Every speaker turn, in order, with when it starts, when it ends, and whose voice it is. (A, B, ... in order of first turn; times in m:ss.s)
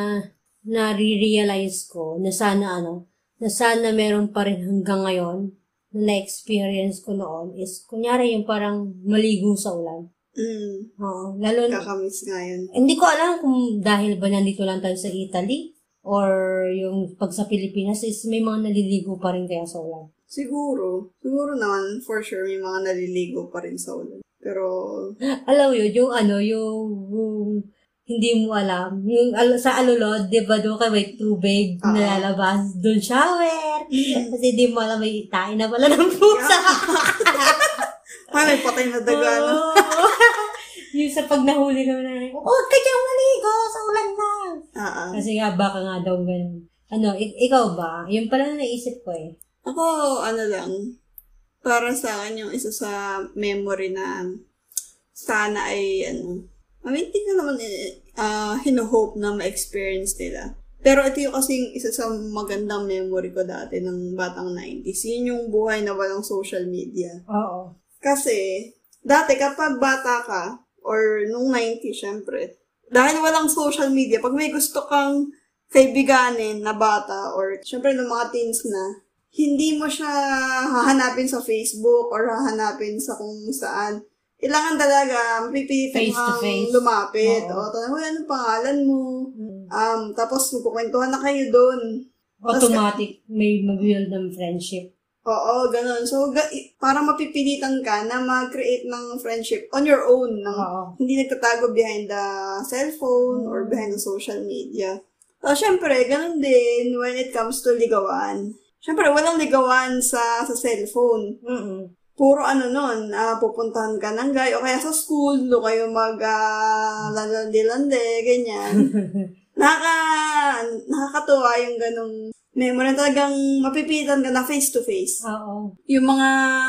0:00.7-0:10.0 A
0:10.4-0:10.9 B
0:11.0-0:11.8 A
0:11.7-0:12.7 B
0:12.7-0:20.1 A
0:20.3-0:25.1 B
0:25.5-0:37.7 A
0:31.8-0:32.3 B
0:34.0-0:34.3 B
0:36.3-0:40.1 B
0:39.1-0:44.6 A
0:44.8-0:45.2 B
0:45.1-0:49.3 A
0:49.6-0:50.8 B
0:51.6-0:54.2 B
0:55.1-1:07.2 B
1:07.3-1:07.7 A
1:08.0-1:08.5 B
1:09.1-1:15.1 B
1:15.7-1:20.2 B
1:20.7-1:29.0 B
1:25.9-1:27.6 A
1:29.4-1:29.7 A
1:29.7-1:31.8 B
1:32.4-1:34.9 A
1:32.5-1:33.0 B
1:35.3-1:51.3 B
1:40.5-1:40.9 A
1:43.3-1:44.0 A
1:51.4-1:51.9 A
1:52.2-1:56.4 B
1:57.0-1:58.9 B
1:58.8-1:59.3 A
1:59.6-2:05.2 B
2:05.2-2:05.7 A
2:05.9-2:06.3 B